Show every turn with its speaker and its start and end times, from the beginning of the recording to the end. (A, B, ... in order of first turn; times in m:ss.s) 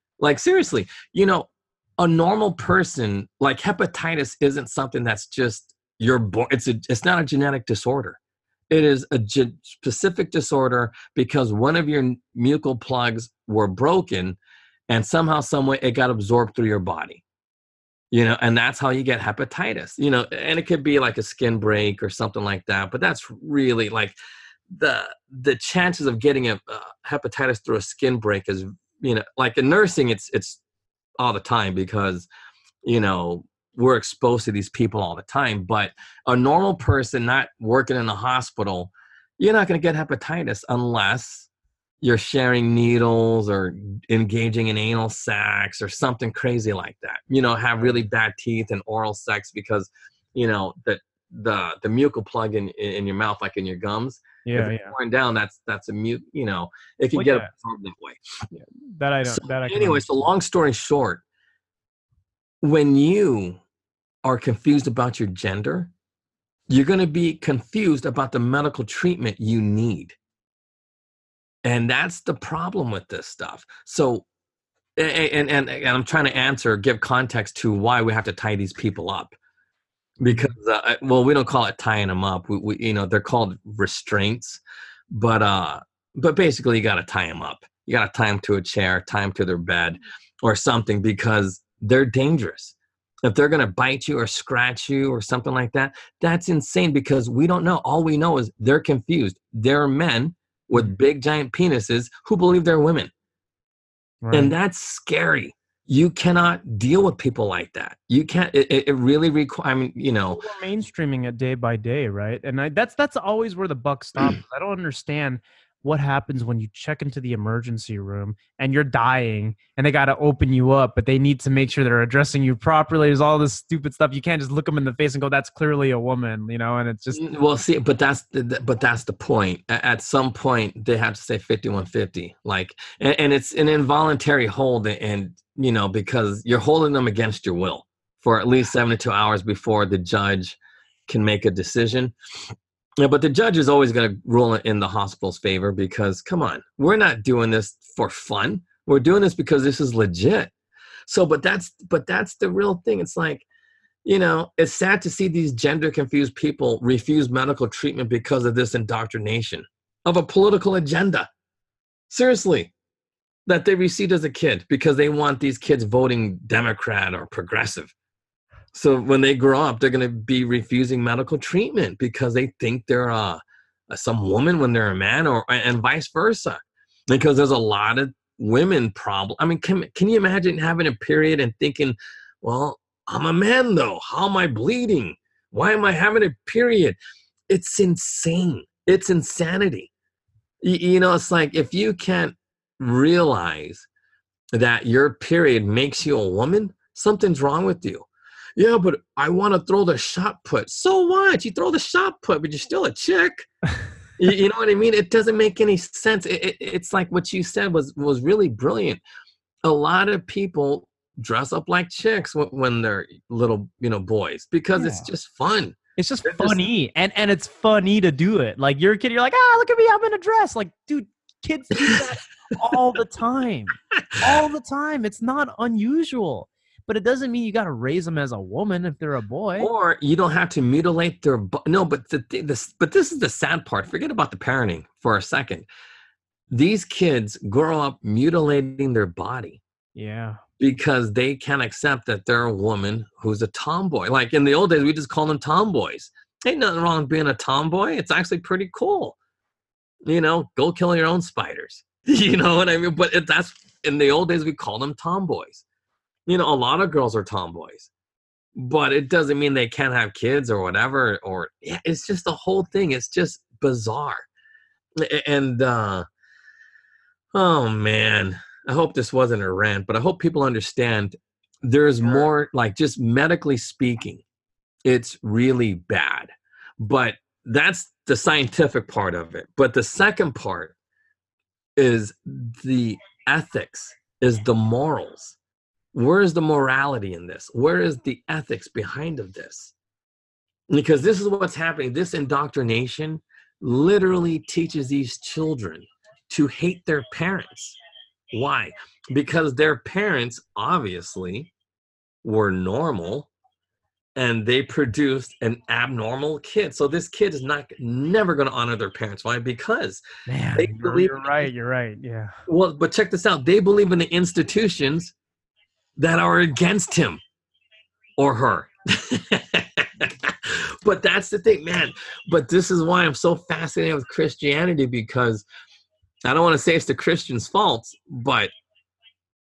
0:00.2-0:08.2 A
0:08.7-0:14.4 A
0:14.9-0:17.2 A
0:18.1-0:24.1 A
0:24.7-0:30.6 A
0:31.2-0:32.3 A
0:32.8-0:41.5 A
0:42.0-0:58.2 A
0:54.4-0:54.9 B
0:57.1-0:57.5 B
0:58.5-1:00.0 B
0:59.2-1:01.2 A
1:02.6-1:03.6 A
1:04.2-1:05.9 A
1:06.7-1:10.2 A
1:11.6-1:14.2 A
1:15.0-1:19.4 A
1:20.2-1:24.6 A
1:20.2-1:20.6 B
1:25.1-1:43.1 A
1:44.2-1:44.5 B
1:44.3-1:50.4 A
1:50.3-2:07.2 B
2:07.1-2:22.1 A
2:23.0-2:30.5 A
2:31.1-2:33.4 A
2:34.0-2:41.3 A
2:42.1-2:42.7 A
2:43.4-2:47.9 A
2:48.7-3:07.0 A
3:07.5-3:09.9 A
3:10.6-3:13.9 A
3:14.5-3:23.5 A
3:24.2-3:29.0 A
3:29.6-3:36.6 A
3:34.8-3:35.1 B
3:36.0-3:49.7 B
3:49.6-3:55.7 A
3:56.5-3:59.6 A
3:59.9-4:00.4 B
4:00.6-4:09.2 A
4:10.0-4:15.6 A
4:16.3-4:17.9 A
4:18.6-4:24.2 A
4:25.0-4:26.1 A
4:27.3-4:34.2 A
4:34.8-4:40.7 A
4:41.8-4:45.4 A
4:45.9-4:49.7 A
4:50.7-4:57.8 A
4:58.3-5:01.5 A
5:02.2-5:03.3 A
5:04.2-5:10.0 A
5:10.3-5:12.4 B
5:10.6-5:11.5 A
5:12.5-5:15.1 A
5:16.0-5:17.2 A
5:18.2-5:25.4 A
5:26.2-5:28.5 A